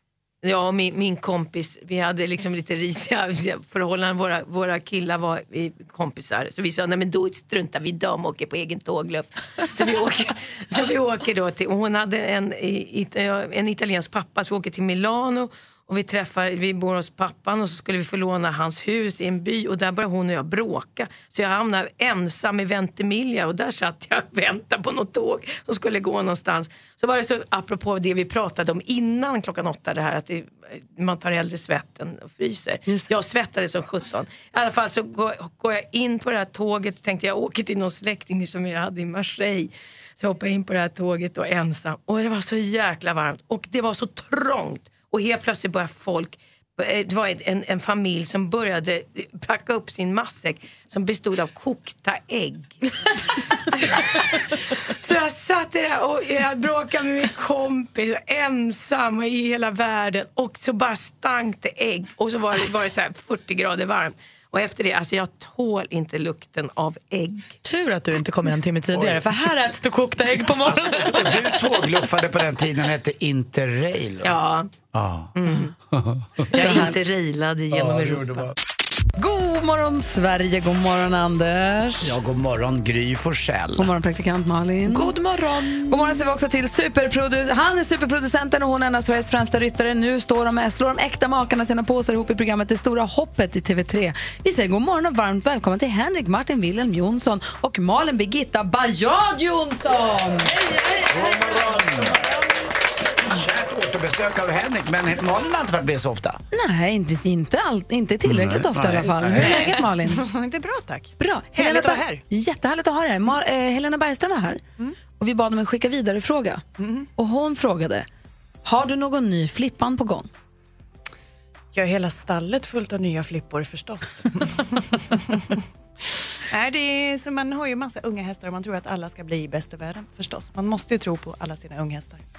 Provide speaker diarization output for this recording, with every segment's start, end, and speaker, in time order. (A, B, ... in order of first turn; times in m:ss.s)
0:00.4-0:52.8 A
0:53.5-1:07.6 A
1:07.6-1:11.5 B
1:08.9-1:09.2 C
1:10.6-1:14.4 C
1:14.2-1:14.7 A
1:14.9-1:15.3 C
1:15.4-1:15.7 A
1:15.9-1:16.8 C
1:16.5-1:18.5 A
1:16.6-1:17.0 D
1:17.7-1:18.6 C
1:19.2-1:22.1 D
1:22.0-1:23.9 C
1:23.8-1:25.1 D
1:24.8-1:26.2 B
1:25.9-1:40.6 D
1:41.1-1:42.2 C
1:43.2-1:46.4 C
1:46.5-1:50.3 D
1:48.2-1:49.6 C
1:49.4-1:52.2 E
1:51.2-1:54.6 D
1:55.2-1:56.6 D
1:56.8-1:57.1 E
1:57.2-1:58.1 D
1:58.6-2:00.3 D
2:01.7-2:05.6 E
2:06.5-2:12.2 E